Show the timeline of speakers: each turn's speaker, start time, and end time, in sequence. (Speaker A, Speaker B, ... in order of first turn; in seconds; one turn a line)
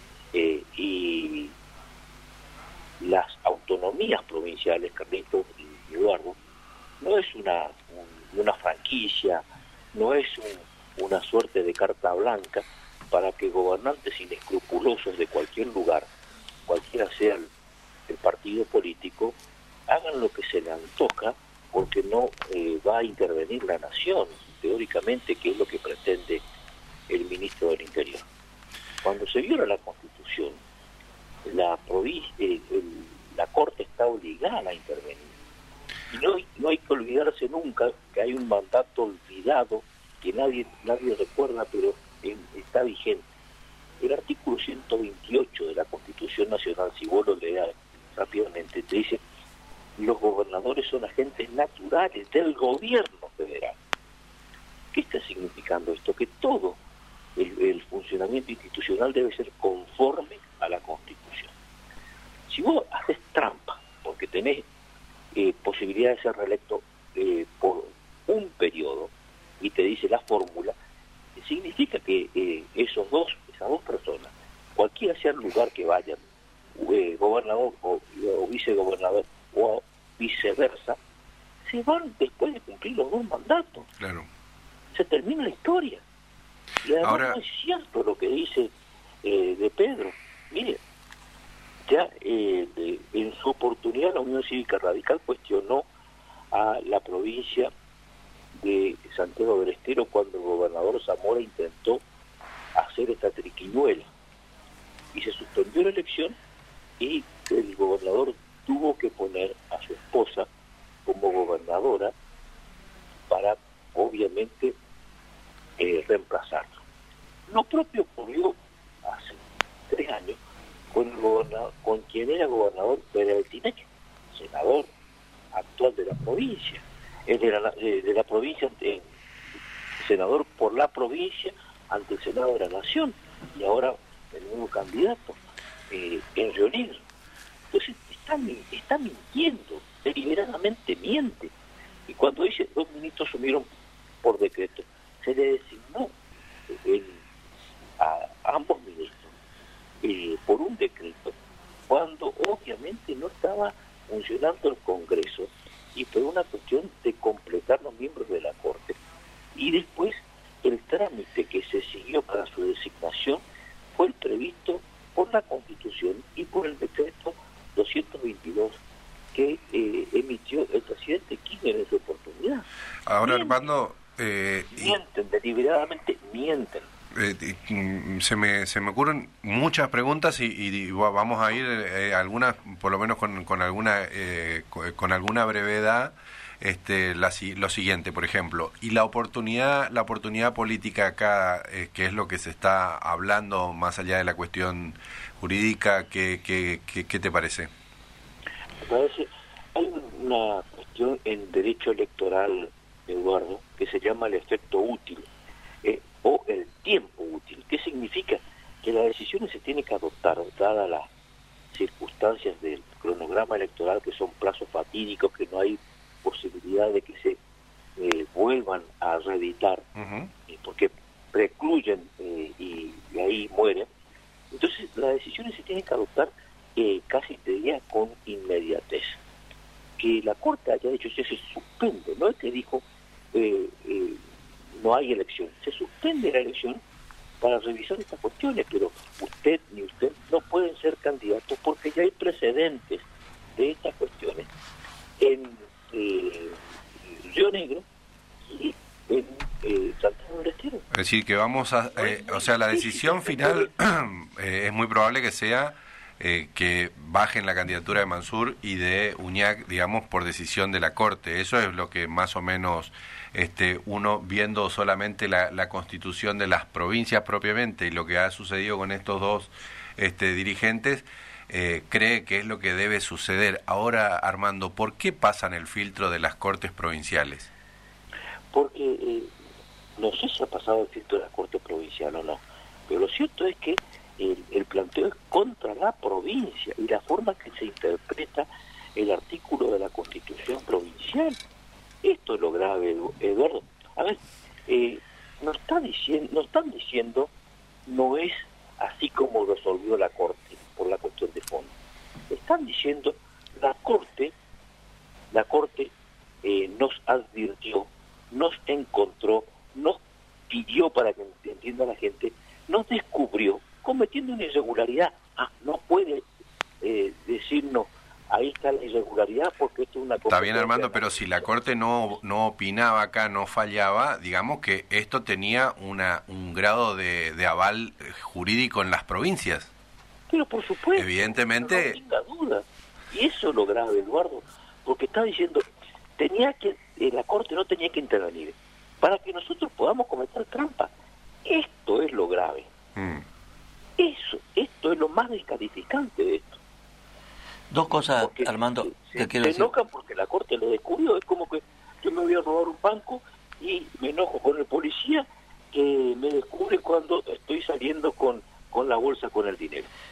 Speaker A: 0.3-1.5
Speaker A: 3.0-6.4
Speaker A: 7.0-16.1
Speaker A: 16.7-17.5
Speaker A: 18.1-19.4
Speaker A: 19.9-26.4
Speaker A: 27.1-28.2
Speaker A: 29.0-30.6
Speaker A: 31.4-35.3
Speaker A: 36.1-43.2
Speaker A: 44.0-49.2
Speaker A: 50.0-53.8
Speaker A: 54.9-56.8
Speaker A: 57.4-61.5
Speaker A: 62.5-64.7
Speaker A: 65.3-70.8
Speaker A: 71.4-76.2
Speaker A: 76.8-81.0
Speaker A: 81.7-83.9
Speaker B: 84.0-84.3
Speaker A: 84.9-86.0
Speaker A: 86.8-88.7
Speaker B: 87.0-87.4
Speaker A: 89.2-90.8
Speaker A: 91.9-95.9
Speaker A: 96.5-97.7
Speaker A: 98.6-102.0
Speaker A: 102.8-104.1
Speaker A: 105.1-106.4
Speaker A: 107.0-110.5
Speaker A: 111.1-112.1
Speaker A: 113.3-114.8
Speaker A: 115.8-116.8
Speaker A: 117.5-119.4
Speaker A: 119.9-120.4
Speaker A: 120.9-124.9
Speaker A: 125.5-129.0
Speaker A: 130.0-135.4
Speaker A: 135.9-137.0
Speaker A: 137.7-141.5
Speaker A: 142.1-143.7
Speaker A: 144.2-146.1
Speaker A: 146.8-147.2
Speaker A: 148.0-149.3
Speaker A: 150.0-151.3
Speaker A: 151.9-159.0
Speaker A: 159.6-163.4
Speaker A: 164.0-168.8
Speaker A: 169.3-172.7
Speaker B: 173.1-175.0
Speaker A: 173.2-173.7
Speaker A: 174.7-176.9
Speaker B: 177.2-197.7
Speaker A: 198.8-205.3
Speaker A: 205.8-211.1
Speaker A: 211.7-217.4
Speaker A: 218.0-219.8
Speaker B: 220.0-220.3
Speaker A: 220.5-223.9
Speaker A: 224.5-229.2
Speaker A: 230.0-234.2
Speaker A: 234.8-236.8
Speaker A: 237.4-243.1
Speaker A: 243.6-244.5
Speaker A: 245.2-246.6
Speaker A: 247.1-247.8
Speaker A: 248.5-250.8
Speaker B: 250.9-277.5
Speaker A: 252.0-253.7
Speaker A: 278.5-279.3
Speaker A: 280.0-291.4
Speaker A: 292.0-297.3
Speaker A: 297.9-301.7
Speaker A: 302.3-304.3
Speaker A: 305.3-305.9
Speaker A: 306.4-310.0
Speaker A: 310.5-316.2
Speaker A: 316.8-321.5
Speaker B: 320.3-329.7
Speaker A: 330.3-335.7
Speaker B: 330.9-332.0
Speaker A: 336.2-340.9
Speaker A: 341.4-342.7
Speaker B: 343.0-343.2
Speaker A: 344.0-346.6
Speaker C: 347.7-349.7
Speaker A: 347.9-359.9